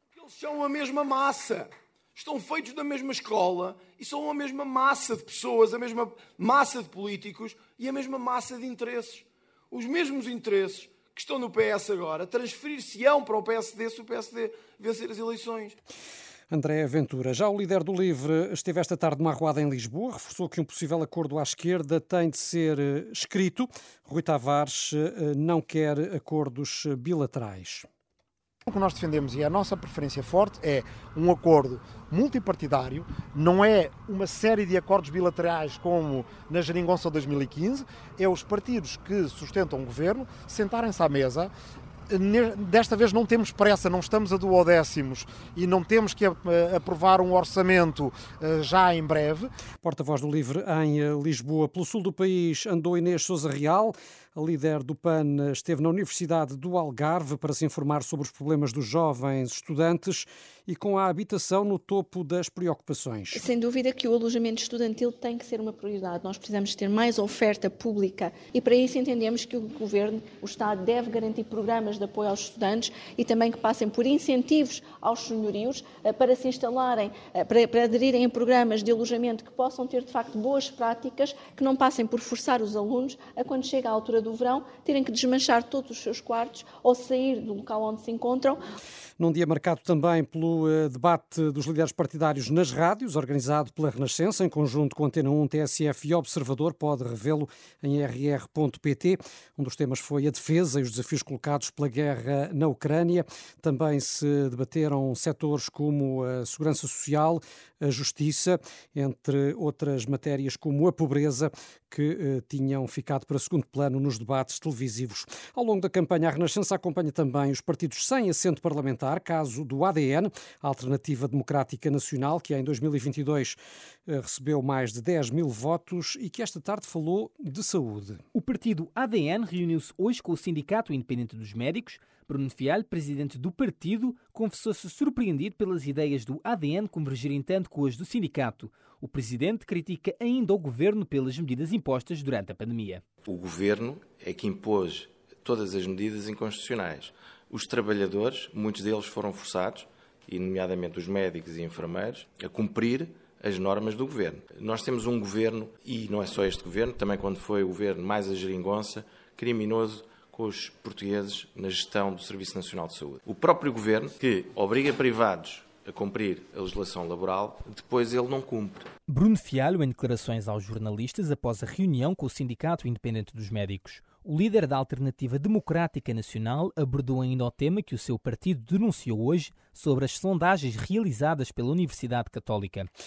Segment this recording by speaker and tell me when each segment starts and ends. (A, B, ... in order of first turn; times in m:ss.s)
0:00.2-0:15.8 A
0:16.5-0:27.8 B
0:28.6-0:41.5 C
0:42.1-0:49.5 C
0:49.8-1:03.4 B
1:03.3-1:28.6 D
1:29.2-2:08.2 B
2:08.3-2:23.0 E
2:23.2-2:48.9 F
2:49.1-3:02.9 E